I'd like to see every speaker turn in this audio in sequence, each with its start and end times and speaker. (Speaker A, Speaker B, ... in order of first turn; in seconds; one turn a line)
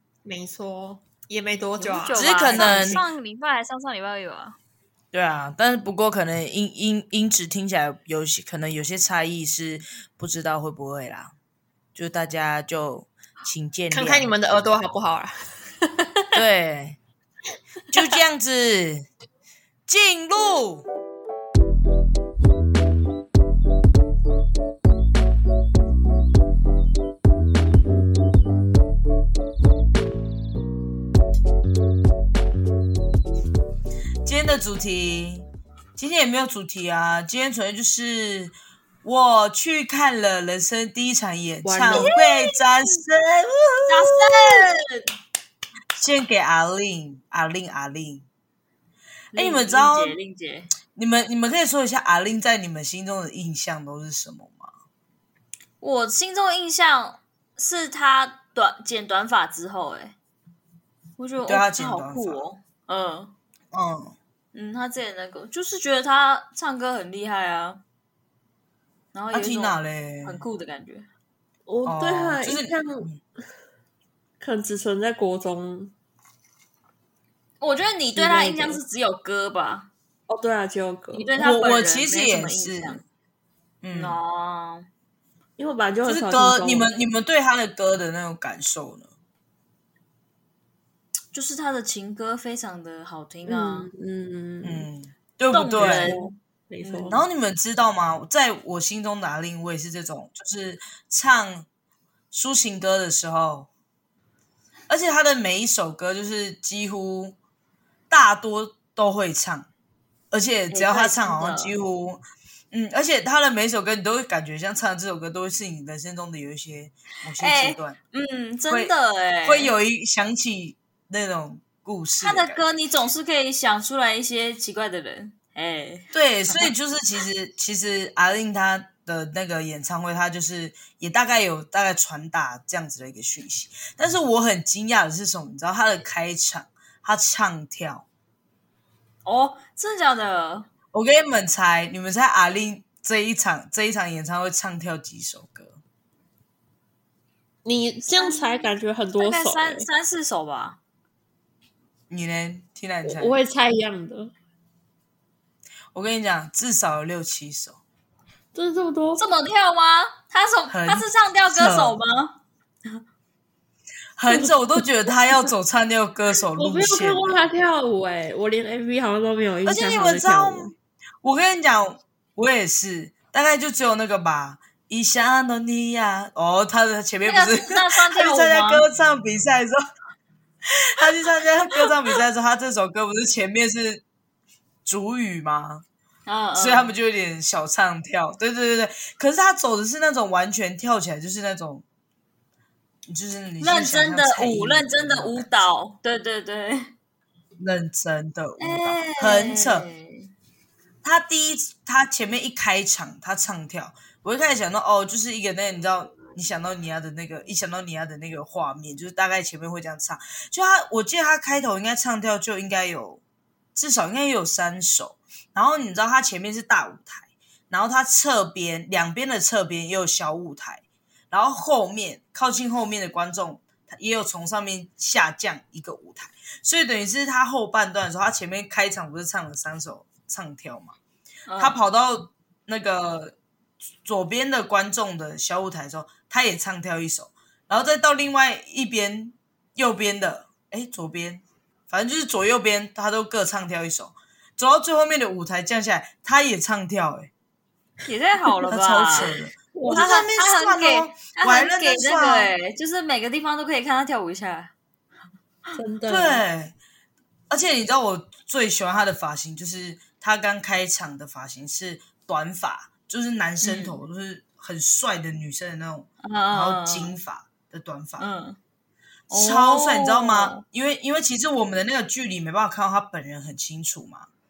Speaker A: 0.2-3.1
Speaker B: 1.8-4.6
Speaker C: 2.1-3.0
Speaker C: 5.1-11.3
Speaker C: 11.9-14.3
Speaker A: 13.9-16.3
Speaker C: 16.3-17.0
Speaker C: 17.9-19.1
Speaker C: 19.9-20.9
Speaker C: 34.2-44.7
Speaker A: 41.6-42.1
Speaker B: 41.9-42.5
Speaker B: 43.9-45.0
Speaker C: 46.0-48.3
Speaker B: 49.3-50.7
Speaker C: 49.4-50.2
Speaker C: 51.0-54.7
Speaker B: 55.8-60.1
Speaker B: 61.2-63.3
Speaker C: 61.5-62.4
Speaker C: 63.7-64.2
Speaker B: 64.5-67.8
Speaker B: 69.1-71.1
Speaker C: 69.3-70.4
Speaker A: 71.7-73.1
Speaker C: 71.8-73.2
Speaker A: 74.4-75.9
Speaker B: 77.6-79.9
Speaker A: 78.1-78.8
Speaker A: 80.3-81.3
Speaker B: 81.1-83.0
Speaker C: 81.4-83.0
Speaker C: 83.8-84.2
Speaker B: 83.9-84.9
Speaker A: 85.6-86.9
Speaker C: 86.0-89.1
Speaker B: 91.3-93.9
Speaker A: 93.5-94.9
Speaker C: 94.6-96.2
Speaker B: 95.5-96.3
Speaker A: 95.8-97.2
Speaker C: 96.8-101.7
Speaker C: 102.3-103.7
Speaker C: 104.9-107.4
Speaker C: 108.1-109.7
Speaker C: 110.3-118.0
Speaker B: 110.7-111.7
Speaker B: 117.4-119.7
Speaker C: 119.5-122.7
Speaker B: 122.2-126.7
Speaker C: 126.1-138.1
Speaker B: 139.2-140.7
Speaker C: 140.9-145.8
Speaker A: 147.7-149.9
Speaker B: 148.1-150.8
Speaker C: 152.1-153.4
Speaker A: 153.1-154.3
Speaker C: 155.9-157.8
Speaker A: 158.5-159.2
Speaker B: 159.2-162.4
Speaker C: 160.7-162.0
Speaker C: 164.2-167.4
Speaker A: 166.6-170.7
Speaker C: 169.7-170.7
Speaker C: 171.2-179.8
Speaker B: 177.3-178.8
Speaker C: 180.7-184.0
Speaker C: 184.8-185.8
Speaker B: 186.3-186.9
Speaker C: 186.6-191.8
Speaker C: 193.1-195.7
Speaker B: 193.6-196.9
Speaker C: 197.6-199.9
Speaker B: 198.6-200.3
Speaker C: 201.0-213.2
Speaker C: 213.8-230.9
Speaker B: 231.5-231.8
Speaker C: 231.6-233.4
Speaker C: 234.1-247.3
Speaker B: 248.1-249.3
Speaker C: 248.7-252.5
Speaker A: 249.7-250.1
Speaker B: 249.9-254.7
Speaker A: 255.8-256.4
Speaker C: 256.1-256.8
Speaker C: 257.5-268.3
Speaker B: 263.6-264.0
Speaker B: 266.2-267.1
Speaker B: 268.2-268.6
Speaker B: 269.3-270.6
Speaker C: 269.3-274.3